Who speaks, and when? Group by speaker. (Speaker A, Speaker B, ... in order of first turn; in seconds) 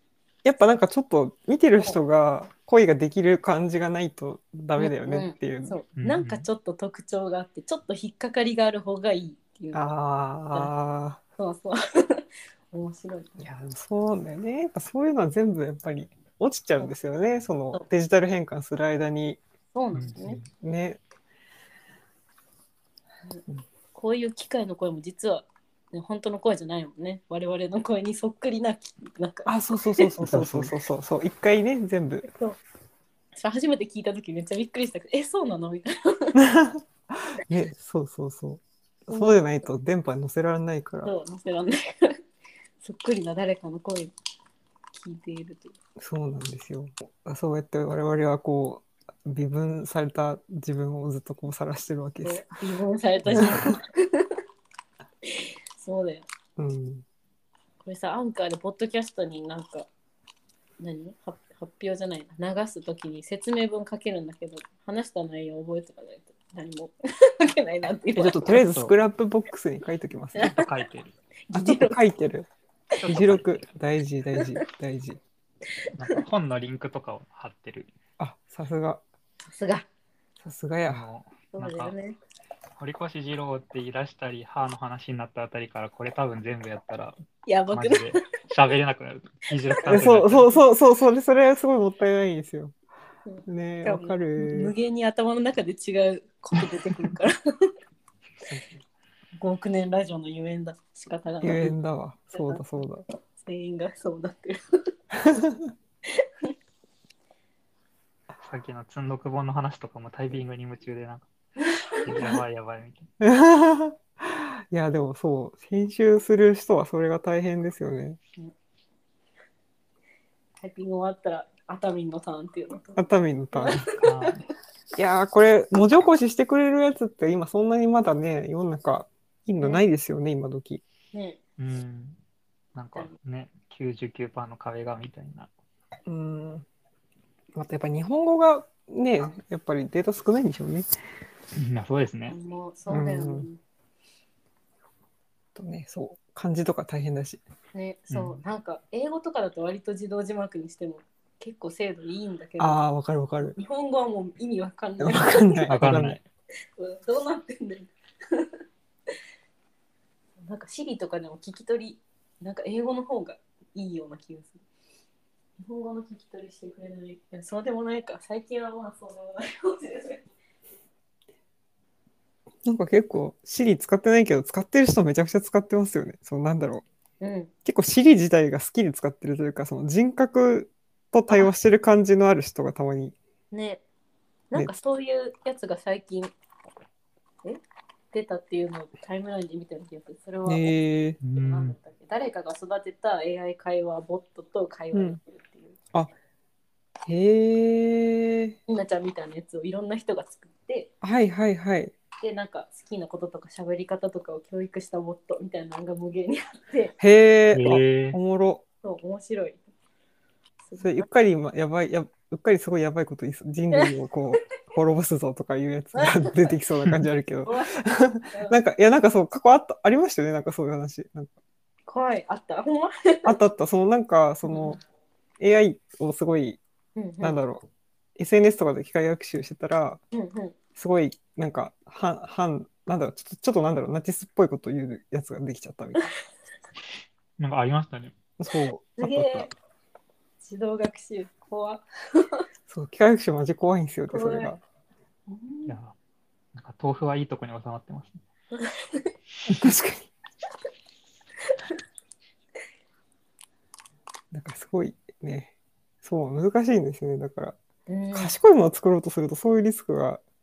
Speaker A: 0.4-5.8, 9.7-11.2, 13.4-19.4, 20.2-21.0, 29.4-32.3, 36.3-36.8, 37.3-41.1, 46.0-52.5, 53.3-53.6, 56.6-57.0, 68.2-70.5, 71.5-72.5, 73.0-75.2, 78.2-79.0, 80.4-81.0, 89.8-92.7, 93.5-94.7, 101.4-103.0, 105.2-105.7, 113.2-118.2, 122.9-123.9, 125.0-130.8, 136.1-136.7, 137.5-140.9, 142.9-143.5, 145.5-147.4, 152.6-153.6, 155.0-156.2, 172.6-176.8, 177.6-183.2, 190.4-191.2, 194.9-195.2, 197.1-198.6, 201.0-201.9, 207.0-208.6, 210.8-221.3, 223.2-224.8, 225.4-226.6, 227.2-227.6, 228.2-230.0, 230.8-236.1, 238.4-239.5, 242.7-244.6, 249.5-250.1, 254.3-255.5, 256.0-257.6, 258.1-260.2
Speaker B: 4.8-9.9, 11.4-13.4, 19.7-20.4, 23.3-30.1, 32.2-32.6, 33.4-36.4, 39.1-39.4, 41.0-42.2, 42.8-44.1, 44.9-45.7, 52.2-54.3, 55.3-56.2, 57.8-59.9, 60.8-68.4, 71.5-72.0, 75.8-76.2, 79.4-79.9, 81.5-82.2, 87.5-88.2, 89.7-90.1, 93.2-97.7, 99.4-101.7, 102.3-102.7, 103.4-104.6, 106.1-106.5, 111.7-112.3, 120.6-123.0, 123.5-124.0, 131.1-131.4, 142.3-143.6, 147.7-152.8, 153.5-156.1, 156.8-158.5, 160.4-164.6, 165.6-170.2, 177.2-177.5, 183.5-183.8, 184.5-186.3, 188.1-190.7, 191.3-195.8, 198.7-200.9, 202.2-206.9, 208.8-209.6, 210.7-211.0, 215.9-216.5, 217.4-217.8, 218.3-218.6, 221.9-223.4, 224.4-224.8, 226.9-227.4, 230.1-230.6, 238.9-239.5, 240.4-242.4, 244.1-244.5, 245.3-245.8, 248.5-249.1, 257.9-258.4
Speaker C: 6.0-6.5, 19.9-20.2, 30.3-30.7, 68.5-68.9, 70.4-71.1, 73.0-73.7, 76.0-77.9, 80.8-81.9, 82.8-87.2, 87.7-90.5, 108.4-111.3, 112.0-113.1, 124.0-124.4, 131.6-132.2, 132.7-135.5, 141.5-142.3, 148.1-148.4, 155.7-156.2, 191.2-191.8, 207.5-208.2, 237.4-238.1, 245.7-245.9, 246.5-248.2